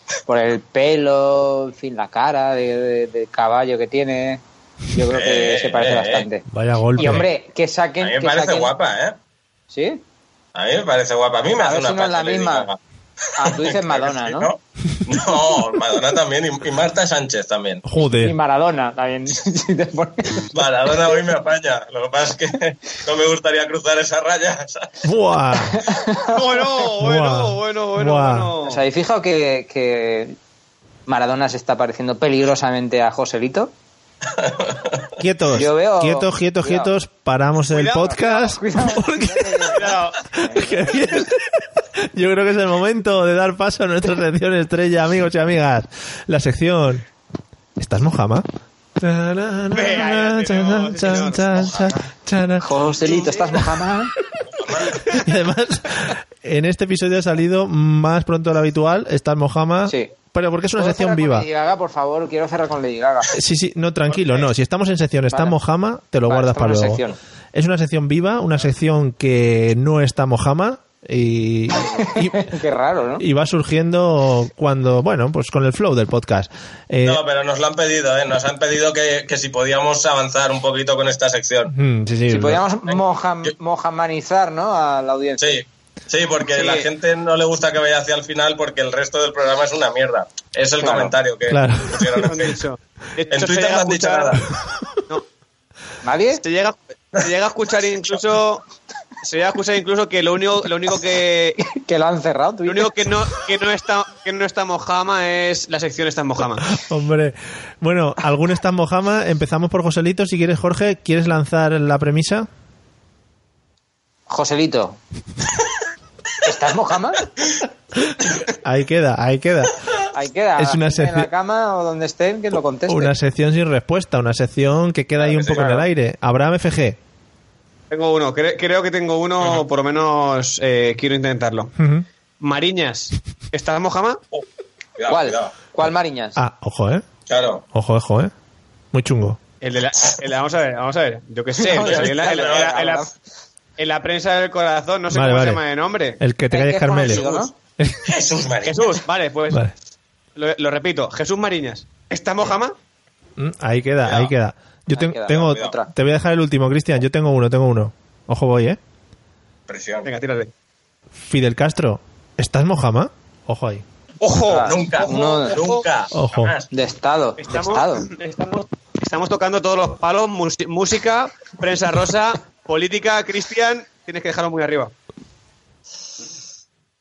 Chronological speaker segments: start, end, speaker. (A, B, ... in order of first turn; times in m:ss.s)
0:00.3-0:06.4 A
0:05.1-0:06.3 B
0:06.5-0:07.3 C
0:07.0-0:08.7 A
0:08.0-0:09.2 B
0:09.7-0:10.0 A
0:10.6-0:12.8 B
0:11.6-0:12.7 A
0:13.4-0:14.5 A
0:13.4-0:17.8 B
0:17.8-0:18.4 C
0:18.2-0:20.5 A
0:20.5-0:24.9 B
0:25.0-0:25.8 C
0:25.7-0:26.7 A
0:26.3-0:28.8 D
0:27.0-0:28.5 C
0:28.6-0:30.4 A
0:31.1-0:33.7 A
0:34.3-0:35.1 B
0:35.2-0:47.1 C
0:35.6-0:36.9 A
0:37.7-0:38.2 D
0:38.0-0:41.0 A
0:39.7-0:40.3 D
0:47.8-0:48.5 C
0:49.0-0:52.7 C
0:49.7-0:51.8 D
0:52.6-0:54.1 A
0:54.5-0:55.2 B
0:54.9-1:01.5 C
1:00.8-1:03.3 A
1:03.3-1:12.6 C
1:04.1-1:04.5 D
1:06.3-1:07.2 A
1:12.0-1:13.2 A
1:13.2-1:17.2 C
1:17.0-1:21.7 B
1:21.7-1:22.6 C
1:22.3-1:25.6 A
1:22.9-1:23.5 B
1:25.4-1:32.6 B
1:26.5-1:26.9 D
1:30.8-1:31.1 A
1:31.5-1:32.4 C
1:32.2-1:34.4 D
1:33.3-1:34.5 B
1:36.0-1:36.4 A
1:36.4-1:38.6 D
1:39.2-1:41.6 D
1:41.6-1:43.1 A
1:42.7-1:46.7 D
1:46.6-1:52.5 C
1:54.3-1:55.0 A
1:56.4-1:57.3 A
1:58.5-1:59.8 C
2:00.1-2:03.1 A
2:00.6-2:01.3 C
2:02.9-2:07.0 C
2:05.2-2:05.8 B
2:05.5-2:05.8 A
2:07.9-2:11.8 D
2:11.8-2:12.1 C
2:12.4-2:14.2 D
2:15.0-2:15.5 B
2:15.1-2:16.4 A
2:16.4-2:17.0 C
2:17.3-2:17.6 B
2:17.7-2:18.3 C
2:18.9-2:19.4 C
2:19.6-2:23.1 D
2:21.6-2:23.1 A
2:21.6-2:23.0 B
2:23.8-2:26.2 D
2:25.1-2:25.6 C
2:26.2-2:27.2 C
2:26.5-2:27.5 A
2:27.0-2:27.5 D
2:27.8-2:28.1 C
2:28.0-2:29.0 B
2:28.6-2:29.7 D
2:30.4-2:32.8 D
2:33.4-2:38.8 C
2:34.0-2:34.3 B
2:34.9-2:35.9 A
2:35.3-2:35.7 B
2:39.7-2:40.1 B
2:40.0-2:40.5 D
2:41.3-2:43.8 C
2:44.2-2:45.8 D
2:44.5-2:45.6 A
2:44.6-2:46.7 B
2:46.1-2:46.6 C
2:46.7-2:48.1 A
2:47.4-2:54.9 D